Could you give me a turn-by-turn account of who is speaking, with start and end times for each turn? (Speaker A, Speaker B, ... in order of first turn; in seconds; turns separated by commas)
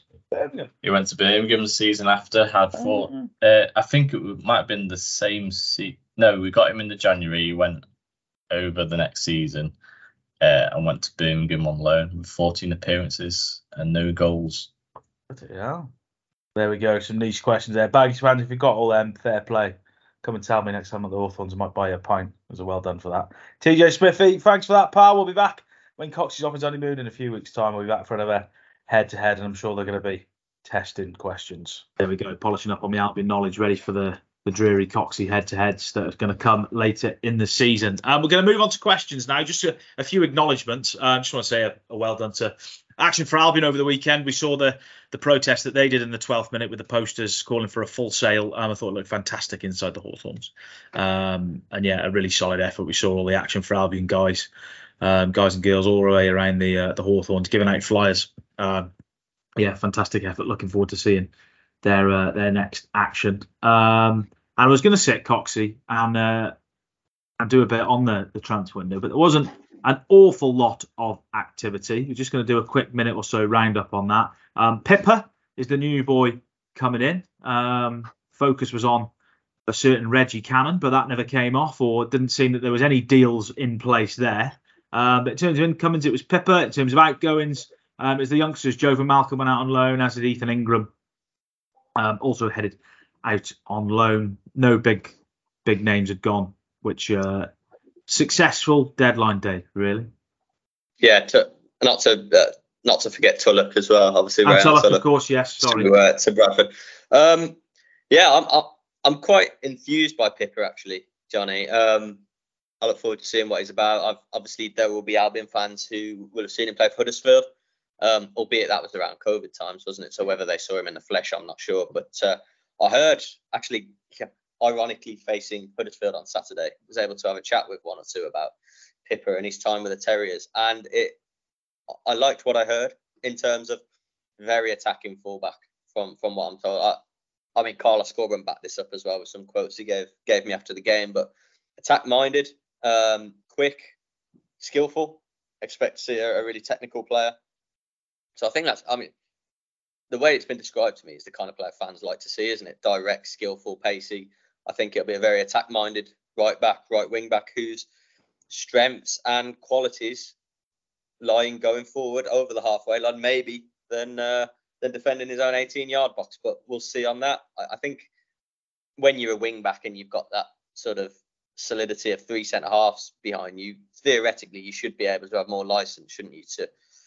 Speaker A: 0.3-0.7, Speaker B: 0.8-7.8, Speaker A: 2.7-3.3, Speaker B: 8.5-9.7, Speaker B: 10.4-14.7, Speaker A: 15.3-15.9, Speaker A: 16.5-54.5, Speaker A: 55.0-58.9, Speaker A: 59.6-61.3, Speaker A: 61.8-66.5, Speaker A: 67.4-79.1, Speaker A: 79.7-90.9, Speaker A: 92.0-97.5, Speaker A: 98.1-100.1, Speaker C: 101.0-105.0, Speaker A: 104.4-105.9, Speaker C: 105.6-107.6, Speaker C: 108.1-112.2, Speaker C: 112.8-117.5, Speaker C: 118.0-128.5, Speaker C: 129.1-131.2, Speaker C: 131.9-133.8, Speaker C: 134.4-137.0, Speaker C: 137.5-143.9, Speaker C: 144.6-147.3, Speaker C: 148.4-149.1, Speaker C: 150.1-157.9, Speaker C: 158.5-160.3, Speaker C: 161.2-168.1, Speaker C: 169.0-176.7